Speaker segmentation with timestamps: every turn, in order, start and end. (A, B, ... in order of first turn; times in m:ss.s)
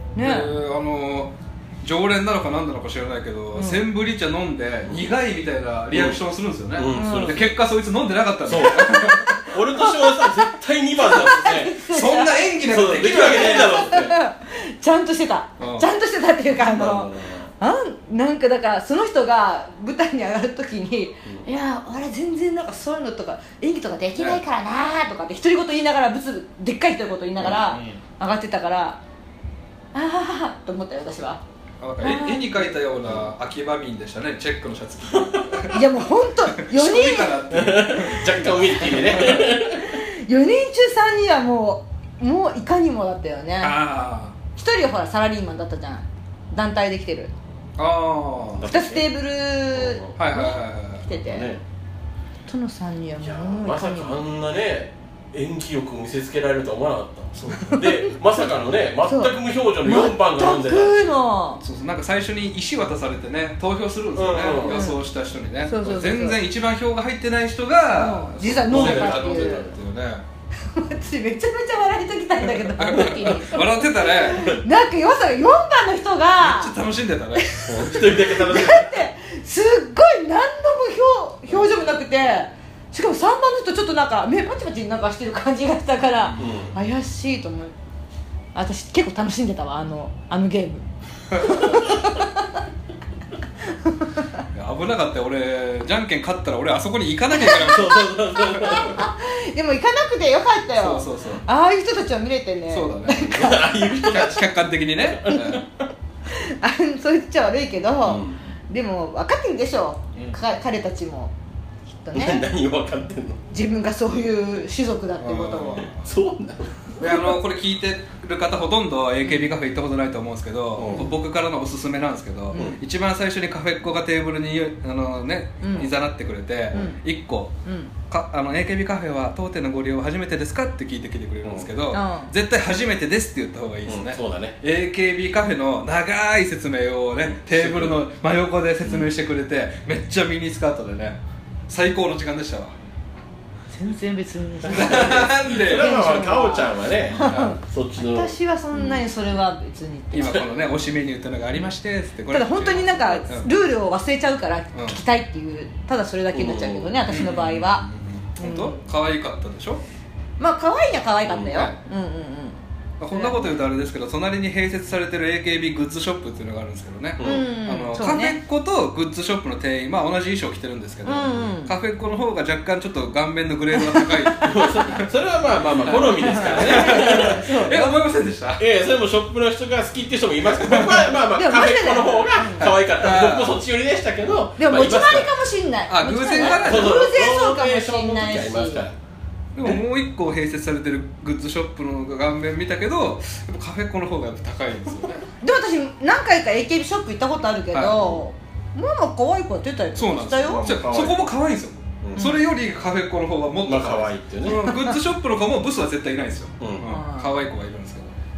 0:00.2-0:00.5 A
0:00.2-0:09.4 B
0:03.5-0:03.8 A
0:05.9-0:06.2 C
0:06.7-0:07.6 C
0:06.9-0:07.4 A
0:08.4-0:11.8 C
0:08.7-0:12.5 A
0:11.9-0:13.8 B
0:12.6-0:14.2 C
0:13.1-0:29.0 A
0:15.6-0:15.9 B
0:16.5-0:17.5 C
0:27.4-0:28.0 B
0:29.9-0:31.4 A
0:31.8-0:35.8 B
0:32.0-0:32.6 A
0:33.0-0:33.3 C
0:35.1-0:35.6 C
0:35.7-0:37.4 A
0:36.5-0:39.6 B
0:37.5-0:40.0 C
0:39.8-0:43.8 A
0:43.6-0:44.4 B
0:44.6-0:47.3 A
0:47.8-0:48.6 B
0:48.5-0:49.1 C
0:48.7-0:51.5 A
0:49.7-0:50.1 C
0:50.2-0:51.0 B
0:51.1-0:51.6 C
0:52.5-0:54.2 A
0:53.2-1:01.1 C
0:57.3-0:57.9 B
0:57.7-0:58.1 A
0:59.0-1:01.6 A
1:01.6-1:10.2 B
1:04.1-1:04.9 C
1:04.6-1:05.0 A
1:05.6-1:06.4 A
1:07.9-1:09.6 A
1:08.4-1:09.7 C
1:10.6-1:16.7 A
1:12.7-1:14.5 B
1:13.0-1:13.3 C
1:14.4-1:14.6 C
1:16.4-1:18.1 B
1:17.3-1:27.7 A
1:17.6-1:19.0 C
1:26.4-1:26.8 C
1:28.5-1:32.6 A
1:31.3-1:31.7 B
1:33.6-1:34.4 A
1:34.5-1:38.8 B
1:37.4-1:43.9 A
1:37.5-1:39.1 C
1:40.8-1:41.4 B
1:42.7-1:45.6 B
1:43.2-1:45.6 C
1:46.3-1:51.3 A
1:48.0-1:48.4 C
1:51.9-1:52.4 A
1:52.1-1:53.4 C
1:53.5-1:55.9 A
1:55.2-1:56.1 B
1:55.9-1:57.1 C
1:57.0-2:07.5 B
1:59.2-1:59.5 A
2:00.8-2:01.1 C
2:02.5-2:02.8 A
2:02.5-2:02.8 C
2:05.6-2:05.9 A
2:06.7-2:07.0 A
2:07.6-2:07.9 A
2:08.1-2:22.7 B
2:11.4-2:11.7 C
2:11.9-2:12.3 A
2:13.8-2:14.6 C
2:17.2-2:18.0 C
2:18.8-2:19.1 C
2:23.7-2:30.5 A
2:24.7-2:25.9 B
2:24.7-2:29.0 C
2:27.3-2:27.6 B
2:30.1-2:33.5 B
2:32.3-2:37.8 A
2:36.3-2:37.0 C
2:37.1-2:39.8 B
2:38.4-2:38.8 A
2:40.4-2:42.6 A
2:41.3-2:41.6 C
2:41.5-2:41.8 B
2:43.0-2:55.1 B
2:43.1-2:43.6 A
2:47.2-2:47.5 C
2:47.2-2:48.4 A
2:51.0-2:51.7 A
2:53.7-2:54.6 A
2:54.4-2:57.6 C
2:55.8-2:58.6 B
2:55.9-2:57.9 A
2:58.6-3:05.3 C
3:00.6-3:01.0 B
3:01.3-3:02.7 A
3:02.6-3:03.6 B
3:04.6-3:08.8 A
3:05.9-3:07.0 B
3:06.4-3:08.9 C
3:09.5-3:15.3 B
3:15.4-3:20.6 A
3:17.7-3:18.2 B
3:19.9-3:28.2 B
3:20.4-3:21.3 C
3:22.2-3:22.4 A
3:23.6-3:24.7 C
3:24.6-3:24.9 A
3:26.6-3:26.8 C
3:26.8-3:27.4 A